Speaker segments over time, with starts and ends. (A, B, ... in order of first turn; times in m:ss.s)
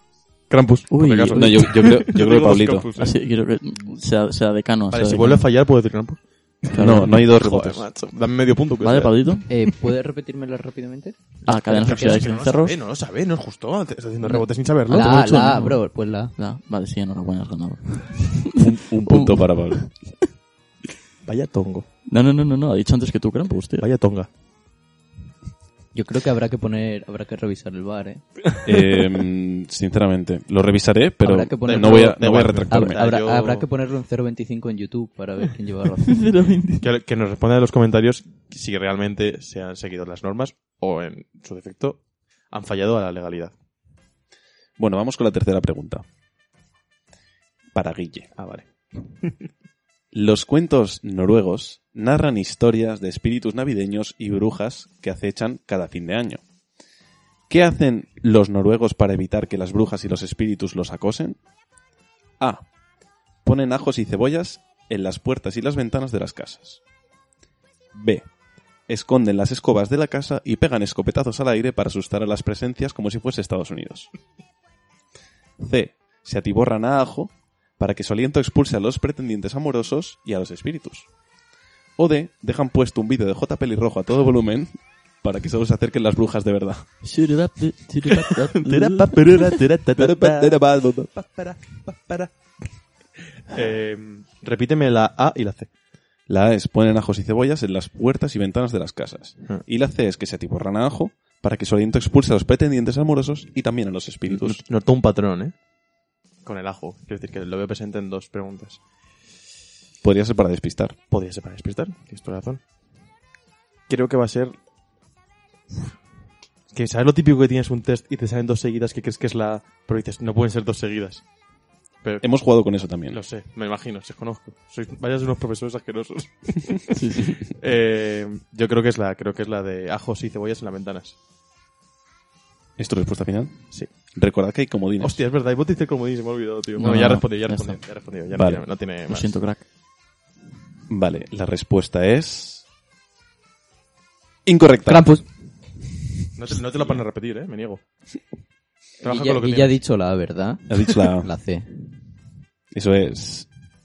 0:00.5-0:03.2 A
0:00.9-0:01.7 B
0:01.3-0:02.9 C
0:03.0-0:05.5 B
0:04.9-0:09.2 A
0:06.7-0:07.1 B
0:06.7-0:07.9 C
0:08.8-0:09.5 B
0:09.5-0:11.2 D
0:11.5-0:12.8 B
0:11.5-0:15.3 A
0:14.2-0:16.3 D
0:14.9-0:15.8 B
0:16.4-0:19.9 B
0:18.6-0:19.9 C
0:21.2-0:21.9 A
0:22.1-0:23.9 B
0:23.8-0:24.3 A
0:25.9-0:28.4 D
0:28.6-0:33.1 C
0:31.2-0:36.2 D
0:31.6-0:33.7 A
0:36.1-0:36.9 B
0:36.8-0:43.5 A
0:44.8-0:46.0 C
0:47.7-0:48.3 C
0:48.4-0:49.3 A
0:50.1-0:56.4 C
0:57.5-1:01.4 C
1:02.4-1:02.6 C
1:03.4-1:06.8 C
1:07.9-1:08.3 C
1:08.9-1:14.1 C
1:15.6-1:21.1 C
1:22.0-1:26.8 C
1:27.0-1:29.4 B
1:28.5-1:30.6 A
1:29.9-1:31.4 C
1:31.3-1:32.3 A
1:33.5-1:35.7 A
1:36.3-1:44.6 C
1:44.3-1:45.5 A
1:46.4-1:48.8 A
1:50.0-1:51.0 C
1:51.1-1:52.6 A
1:53.9-1:54.6 A
1:56.7-2:01.3 A
2:02.0-2:02.3 A
2:02.2-2:03.2 C
2:03.1-2:11.2 A
2:06.9-2:07.4 B
2:12.8-2:15.2 C
2:15.0-2:19.4 A
2:16.8-2:17.8 B
2:18.3-2:18.6 C
2:19.1-2:19.6 B
2:20.9-2:22.6 C
2:24.5-2:25.2 C
2:24.9-2:25.3 D
2:26.4-2:27.8 A
2:29.0-2:29.8 A
2:29.0-2:32.0 D
2:30.7-2:31.3 C
2:32.7-2:33.5 C